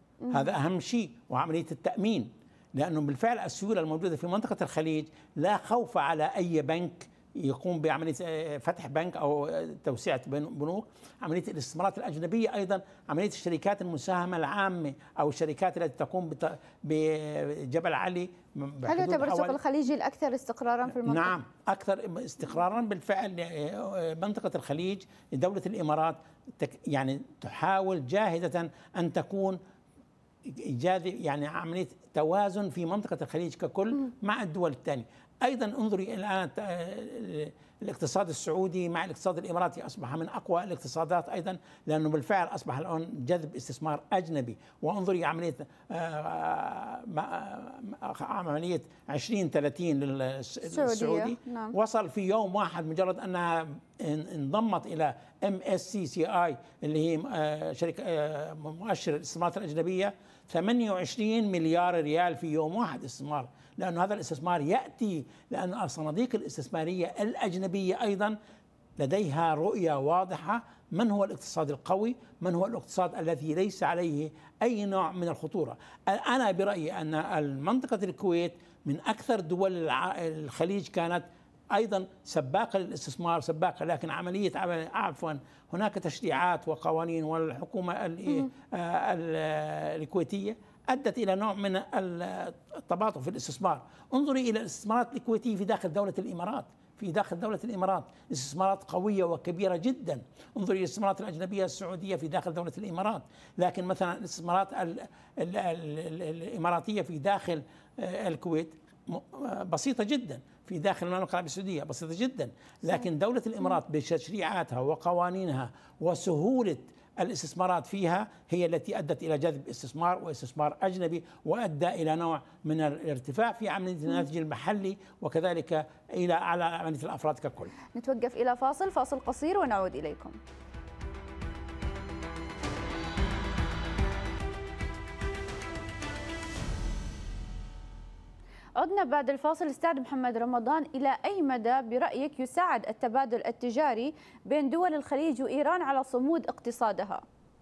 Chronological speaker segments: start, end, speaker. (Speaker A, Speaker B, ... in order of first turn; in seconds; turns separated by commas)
Speaker A: 0.2-0.5, Speaker B: 0.3-19.6, Speaker A: 18.9-21.4, Speaker B: 21.0-29.6, Speaker B: 30.5-68.4, Speaker A: 50.7-51.8, Speaker B: 69.0-127.7, Speaker A: 128.0-130.4, Speaker A: 138.8-147.2